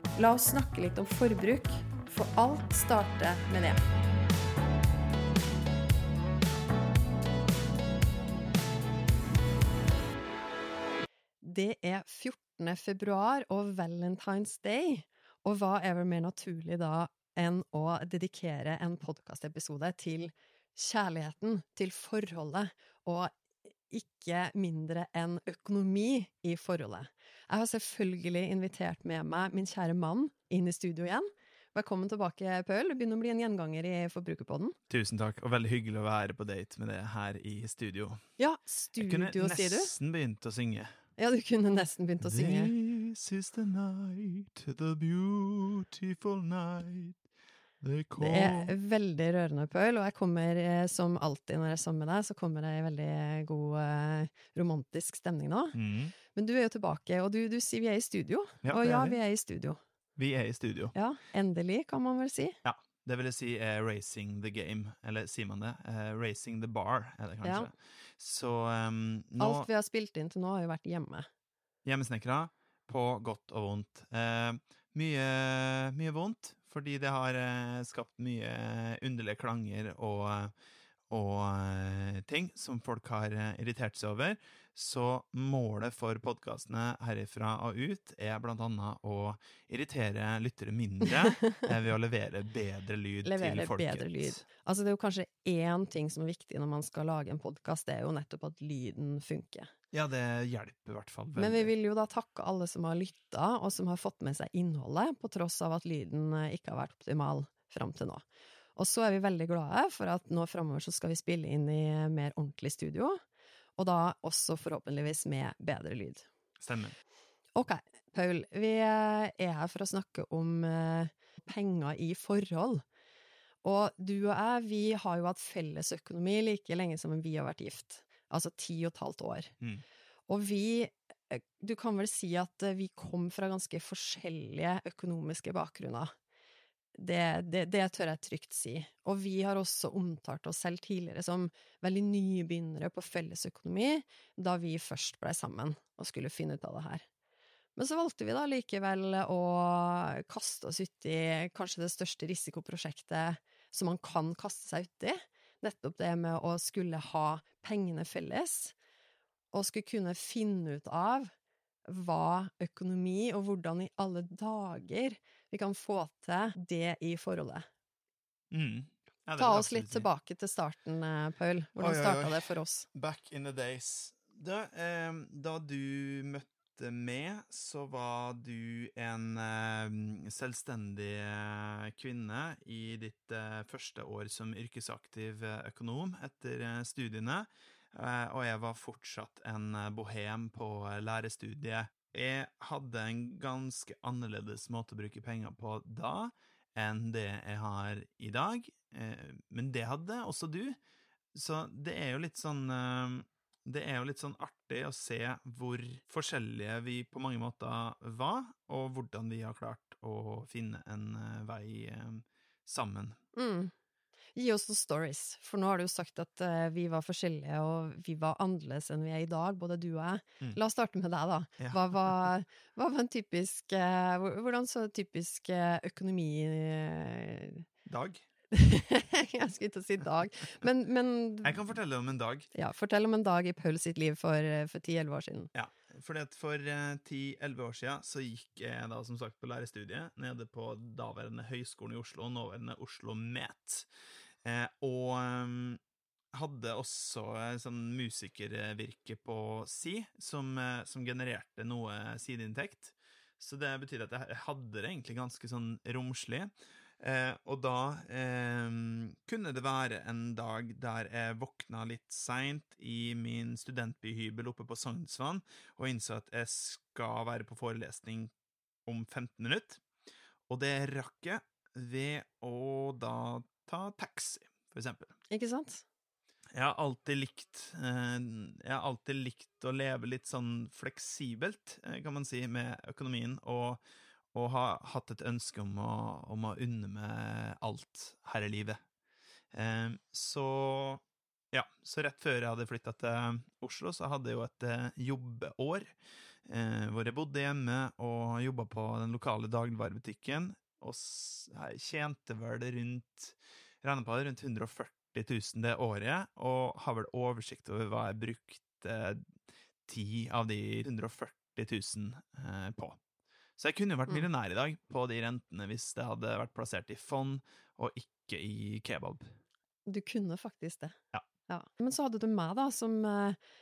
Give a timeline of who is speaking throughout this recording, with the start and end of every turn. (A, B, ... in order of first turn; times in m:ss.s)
0:00.2-0:03.8 A
0:11.4-0:23.3 A
0:23.9-0:34.8 A
0:34.9-0:38.2 B
0:38.4-0:39.9 A
0:39.0-0:40.9 B
0:41.2-0:42.7 A
0:42.2-0:47.2 B
0:47.8-0:48.7 B
0:48.2-0:59.8 A
0:55.7-0:56.1 B
0:58.6-0:59.2 B
1:00.2-1:00.9 B
1:00.9-1:02.6 A
1:02.6-1:09.7 B
1:07.4-1:07.7 A
1:09.4-1:11.3 A
1:11.8-1:20.5 B
1:21.1-1:34.4 B
1:31.1-1:31.7 A
1:33.2-1:39.7 A
1:39.9-1:41.7 B
1:41.4-1:48.2 A
1:48.8-1:53.2 A
1:53.8-1:56.3 A
1:56.6-1:57.0 B
1:57.6-2:02.8 A
2:03.6-2:09.5 A
2:10.3-2:16.1 A
2:16.9-2:27.0 A
2:27.8-2:38.7 A
2:39.5-2:41.3 A
2:41.9-2:47.7 A
2:48.5-2:50.1 B
2:49.4-2:52.9 A
2:51.8-3:20.8 B
3:21.3-3:33.2 B
3:33.3-3:33.7 A
3:34.3-3:47.6 A
3:41.6-3:42.2 B
3:47.8-3:48.2 B
3:48.5-3:51.6 A
3:51.4-3:52.5 B
3:52.5-3:55.5 A
3:55.5-4:03.9 B
4:04.4-4:05.8 B
4:06.3-4:28.3 B
4:28.8-4:29.8 B
4:30.5-4:35.1 B
4:35.3-4:35.8 A
4:36.5-4:43.8 B
4:44.3-4:48.8 B
4:49.5-4:55.9 B
4:56.4-5:09.2 B
5:09.9-5:13.0 B
5:13.6-5:19.3 B
5:19.9-5:21.0 A
5:21.5-5:23.4 A